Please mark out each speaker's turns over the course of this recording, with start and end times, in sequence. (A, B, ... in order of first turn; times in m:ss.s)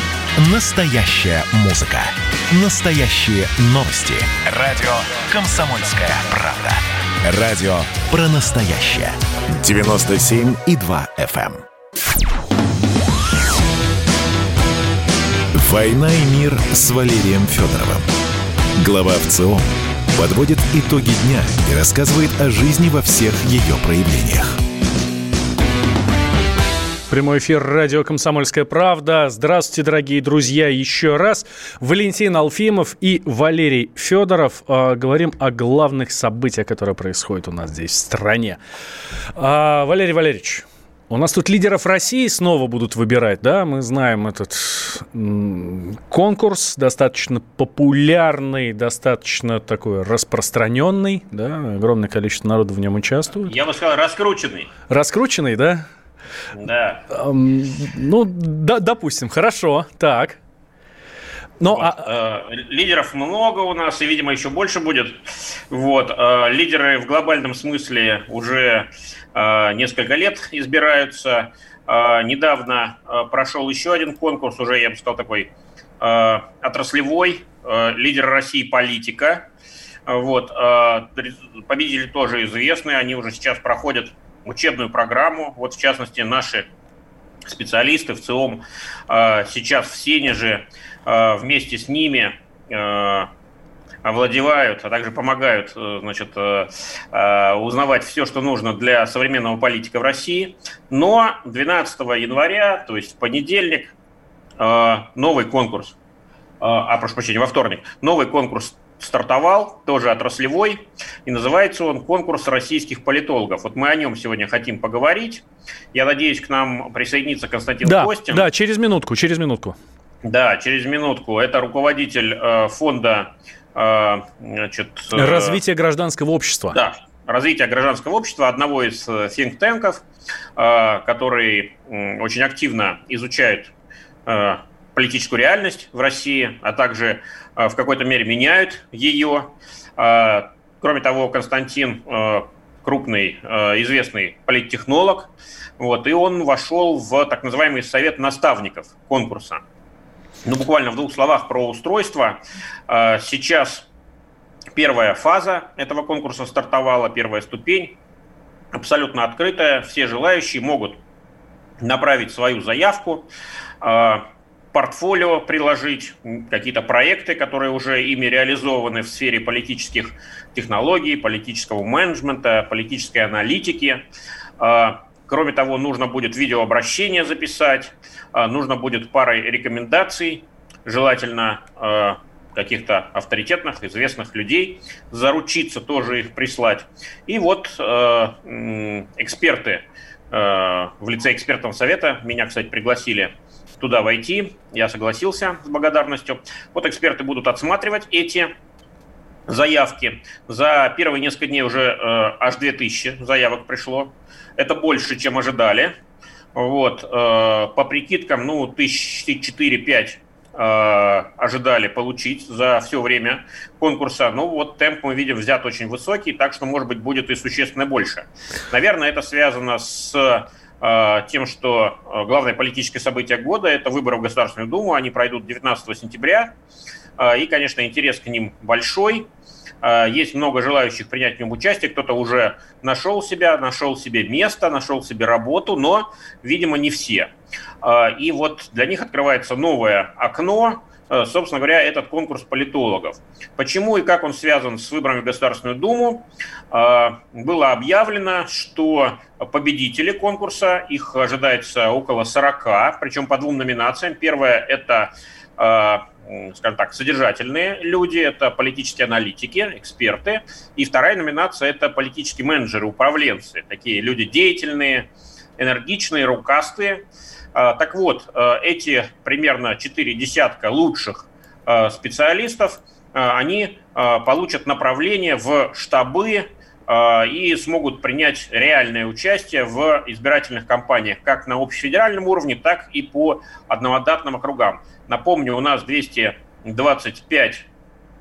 0:00.4-0:11.6 A
0:15.5-0:18.1 A
0:18.8-0:24.6 A
0:27.1-0:38.6 B
0:39.4-0:53.5 B
0:53.4-0:54.7 C
0:54.9-0:55.8 B
0:56.6-0:57.0 C
0:57.1-1:00.4 B
1:01.6-1:02.1 B
1:01.7-1:15.5 C
1:16.0-1:19.4 C
1:20.1-1:26.7 C
1:27.5-1:33.3 C
1:34.0-1:43.9 C
1:44.6-1:46.0 C
1:46.6-1:58.4 C
1:57.8-1:59.8 B
2:00.2-2:05.6 C
2:05.2-2:06.8 B
2:06.7-2:10.0 C
2:10.6-2:13.7 C
2:14.3-2:29.6 C
2:30.4-2:33.9 C
2:34.8-2:38.0 C
2:38.7-2:41.0 C
2:41.8-2:43.3 C
2:43.8-2:54.0 C
2:54.6-3:18.5 C
3:19.5-3:26.0 C
3:26.6-3:46.5 C
3:47.2-3:49.3 C
3:49.8-3:57.3 C
3:57.8-4:47.7 C